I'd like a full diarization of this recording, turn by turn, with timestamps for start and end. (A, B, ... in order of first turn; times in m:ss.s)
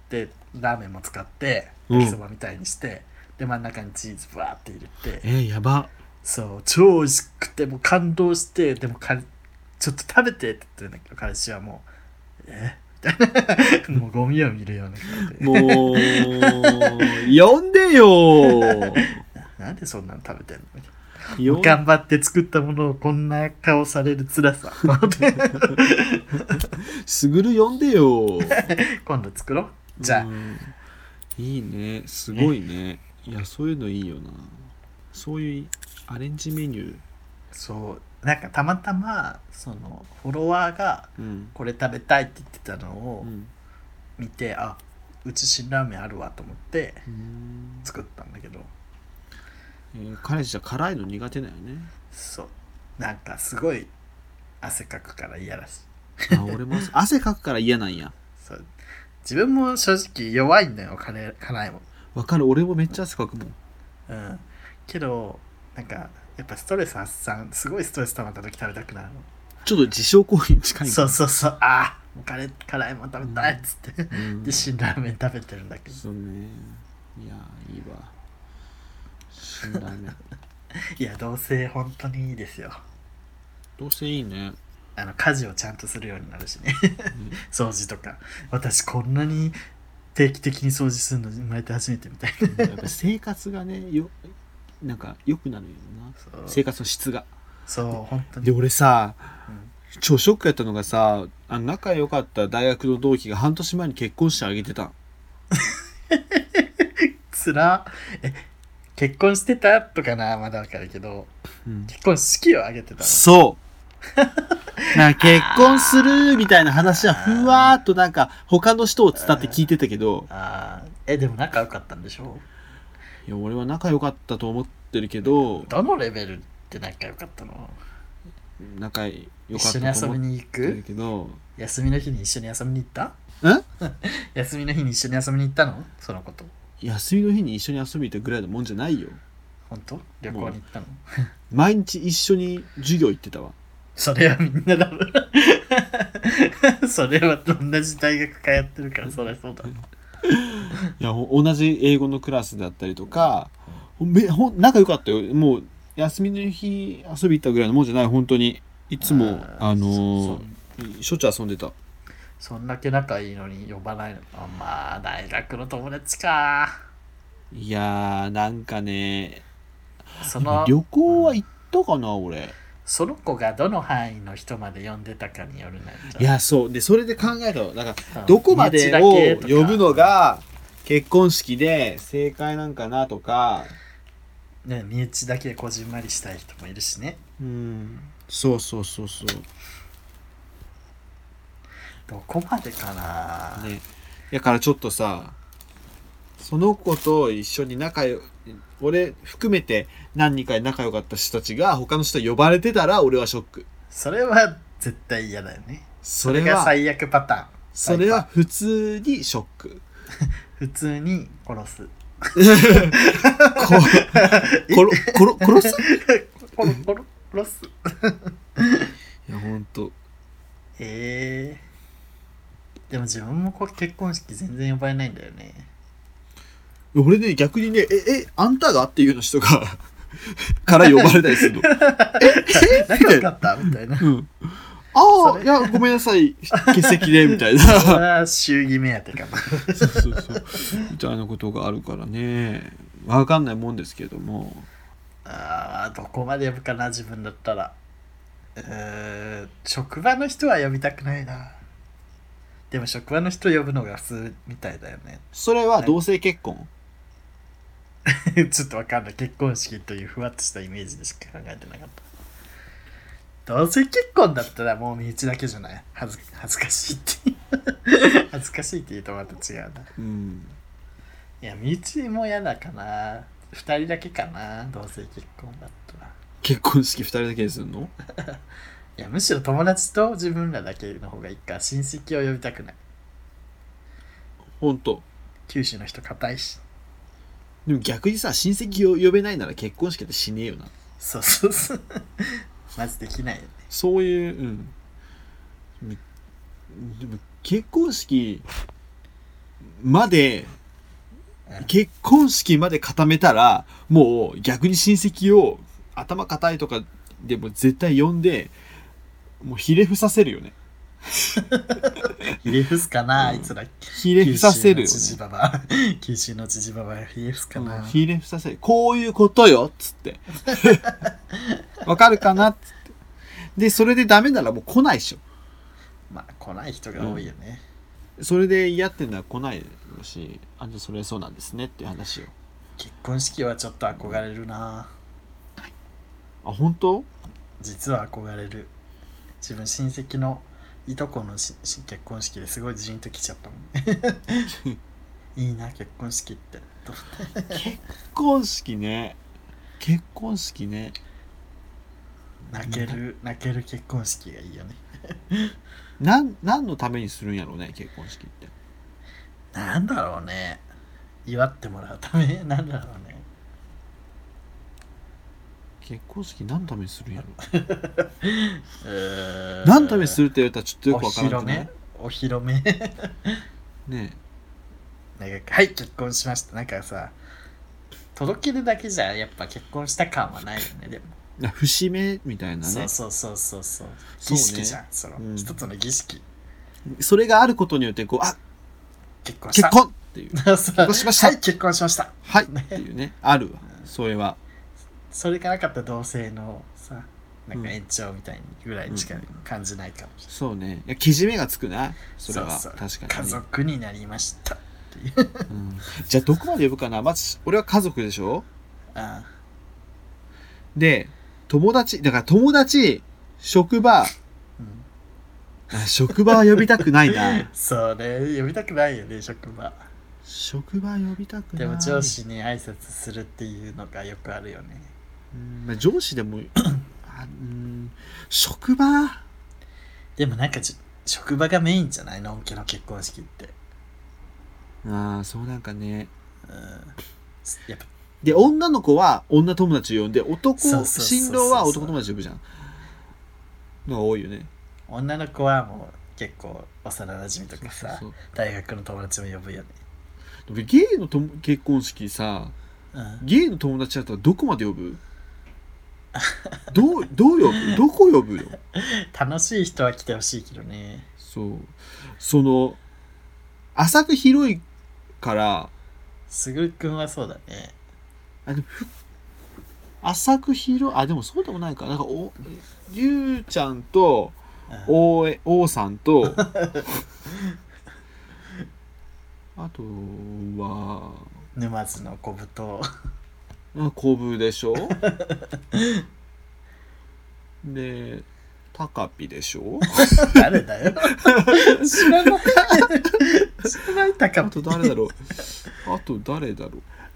0:00.1-0:05.2 A
0:01.9-0:02.2 B
0:05.2-0:05.9 B
0:06.2-0:09.3 A
0:09.8-0:11.9 A
0:12.4-0:17.3 A
0:15.4-0:19.2 B
0:18.4-0:19.0 A
0:19.6-0:26.7 A
0:21.4-0:21.8 B
0:26.6-0:28.6 B
0:28.5-0:30.3 A
0:30.0-0:30.7 B
0:31.4-0:37.0 B
0:37.5-0:43.3 A
0:41.2-0:41.6 B
0:43.2-0:43.5 B
0:44.2-0:47.0 A
0:47.1-0:47.9 B
0:47.8-0:48.7 A
0:49.9-0:51.9 B
0:52.1-0:53.9 A
0:54.6-0:56.6 A
0:56.3-0:58.1 B
0:58.4-0:58.7 A
0:59.2-1:01.8 A
1:02.2-1:03.6 B
1:04.1-1:09.3 A
1:09.6-1:11.2 B
1:10.8-1:16.0 A
1:13.2-1:13.6 B
1:14.1-1:14.7 B
1:15.9-1:18.1 B
1:19.3-1:20.2 B
1:20.8-1:22.8 A
1:23.8-1:24.6 B
1:25.0-1:29.6 A
1:27.1-1:27.4 B
1:30.2-1:32.9 A
1:32.5-1:34.2 B
1:34.8-1:37.3 B
1:36.2-1:36.6 A
1:37.7-1:38.5 A
1:38.4-1:39.3 B
1:40.0-1:45.0 B
1:45.5-1:48.4 A
1:49.0-1:51.3 A
1:51.7-1:51.9 B
1:51.9-1:53.3 A
1:53.0-1:53.6 B
1:54.2-1:57.8 A
1:54.9-2:00.3 B
1:59.2-1:59.6 A
2:00.3-2:02.5 A
2:03.3-2:05.7 B
2:05.2-2:07.8 A
2:08.6-2:11.4 B
2:09.5-2:10.8 A
2:11.6-2:13.2 A
2:13.8-2:16.5 A
2:16.8-2:19.2 B
2:19.7-2:21.0 A
2:20.3-2:20.6 B
2:21.5-2:23.6 B
2:24.0-2:29.7 A
2:29.7-2:41.8 B
2:39.0-2:40.6 A
2:42.4-2:46.8 A
2:47.5-2:49.4 B
2:50.2-2:51.4 A
2:50.2-2:52.6 B
2:52.9-2:56.3 A
2:56.2-3:03.8 B
2:58.1-3:00.1 A
3:04.6-3:07.2 A
3:07.4-3:09.5 B
3:12.1-3:13.7 A
3:13.6-3:15.4 B
3:16.4-3:23.7 B
3:23.9-3:28.3 A
3:26.0-3:26.7 B
3:27.7-3:29.8 B
3:30.6-3:38.9 A
3:32.4-3:35.9 B
3:39.3-3:40.0 B
3:40.8-3:41.6 A
3:42.9-3:45.7 A
3:46.9-3:53.3 B
3:50.8-3:54.1 A
3:54.0-3:58.0 B
3:55.2-3:55.8 A
3:56.7-4:00.8 A
3:59.7-4:04.7 B
4:05.3-4:07.8 A
4:08.6-4:11.6 A
4:12.7-4:15.3 A
4:15.3-4:16.7 B
4:18.1-4:22.0 A
4:23.5-4:29.9 A
4:30.0-4:30.6 B
4:31.4-4:36.1 A
4:36.4-4:37.9 B
4:39.0-4:42.8 A
4:44.6-4:45.0 B
4:45.5-4:46.6 A
4:47.7-4:50.7 B
4:51.0-4:53.6 A
4:53.7-4:54.7 B
4:56.7-4:58.5 B
4:59.7-5:00.6 B
5:01.6-5:08.5 B
5:09.4-5:10.6 B
5:11.2-5:11.4 B
5:11.5-5:11.9 A
5:12.4-5:18.0 A
5:13.2-5:15.2 B
5:17.6-5:21.0 B
5:21.8-5:22.8 B
5:23.6-5:25.2 B
5:26.1-5:27.6 A
5:27.0-5:27.2 B
5:28.2-5:32.3 B
5:32.8-5:34.9 A
5:36.4-5:37.1 B
5:37.6-5:38.7 A
5:39.4-5:44.5 A
5:45.4-5:47.6 A
5:47.5-5:49.2 B
5:49.8-5:51.0 B
5:52.5-5:55.6 A
5:52.6-5:53.0 B
5:56.0-5:58.5 B
5:59.5-6:00.6 A
6:01.3-6:03.2 A
6:05.8-6:07.4 B
6:07.5-6:10.2 A
6:09.6-6:11.7 B
6:10.9-6:13.4 A
6:13.9-6:14.2 B
6:15.2-6:17.2 A
6:18.2-6:21.1 A
6:21.4-6:22.9 B
6:22.6-6:26.2 A
6:24.2-6:25.5 B
6:26.9-6:28.4 B
6:29.2-6:29.8 A
6:29.5-6:31.4 B
6:30.3-6:32.8 A
6:32.3-6:34.4 B
6:35.1-6:40.3 A
6:40.3-6:43.4 B
6:42.2-6:45.5 A
6:45.5-6:48.5 B
6:48.9-6:49.3 A
6:50.8-6:54.1 B
6:54.6-6:54.9 A
6:55.7-6:57.5 B
6:55.8-6:59.9 A
7:00.2-7:02.2 B
7:01.6-7:04.9 A
7:05.3-7:09.2 B
7:10.2-7:13.6 A
7:14.8-7:16.1 B
7:16.5-7:18.4 A
7:18.2-7:22.4 B
7:20.6-7:22.0 A
7:23.9-7:24.5 B
7:24.9-7:29.8 A
7:27.6-7:28.2 B
7:30.5-7:32.6 B
7:32.9-7:33.2 A
7:33.2-7:35.0 B
7:36.2-7:36.7 A
7:36.7-7:38.6 B
7:38.8-7:41.1 A
7:41.2-7:42.8 B
7:43.8-7:44.6 B
7:45.2-7:45.7 B
7:46.3-7:47.8 A
7:48.5-7:48.9 B
7:50.0-7:56.4 B
7:56.4-7:57.4 A
7:59.6-8:01.3 B
8:01.6-8:02.9 A
8:03.7-8:05.0 B
8:05.0-8:06.0 A
8:07.6-8:10.4 B
8:10.0-8:14.9 A
8:11.2-8:12.9 B
8:14.4-8:16.8 B